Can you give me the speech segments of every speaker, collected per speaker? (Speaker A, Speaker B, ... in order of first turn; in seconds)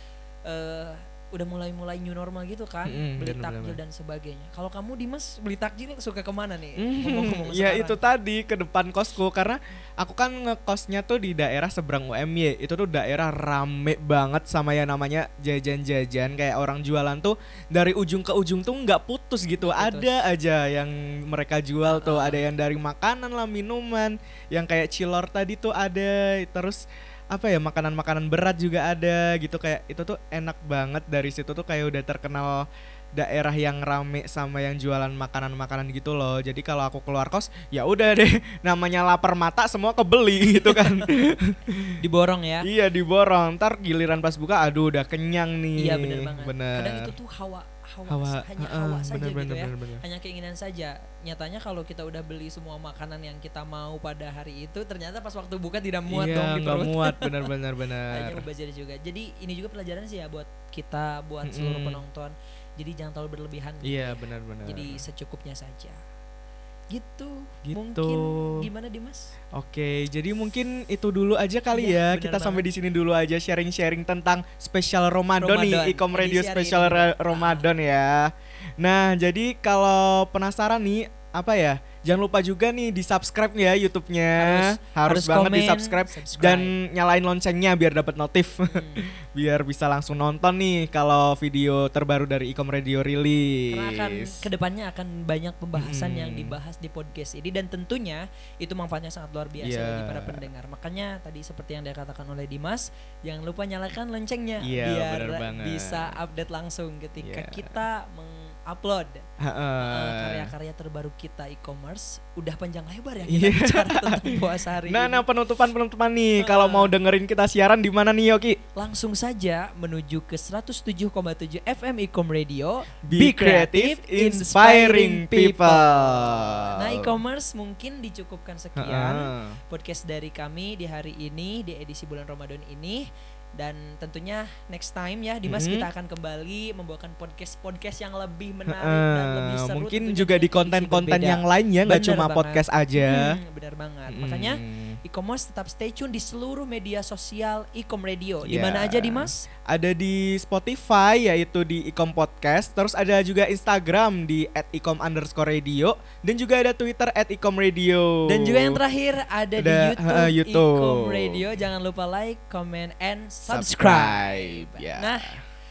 Speaker A: 0.5-8.0, 19.6-20.2, 21.8-22.4, 40.5-41.1, 42.0-42.7, 45.8-57.4, 58.1-66.0, 66.9-69.3, 71.7-72.7, 75.4-77.7, 84.3-86.7, 88.7-89.0, 93.7-109.2, 109.8-115.2, 116.4-116.9, 118.8-133.1, 133.6-149.4, 158.3-165.3
Speaker B: 2.9-3.8, 6.8-26.8, 27.3-32.6, 33.2-42.0, 42.6-47.1, 48.1-50.0, 56.1-58.4, 61.5-62.0, 63.8-65.0, 67.7-68.5, 69.5-94.4, 95.8-96.5, 99.6-100.4, 104.6-106.1, 107.2-107.7, 109.4-110.5, 113.3-118.6, 123.0-127.2, 128.8-129.6, 135.4-135.9, 138.7-143.4, 144.1-145.0, 148.4-158.8, 159.6-161.6, 163.5-165.4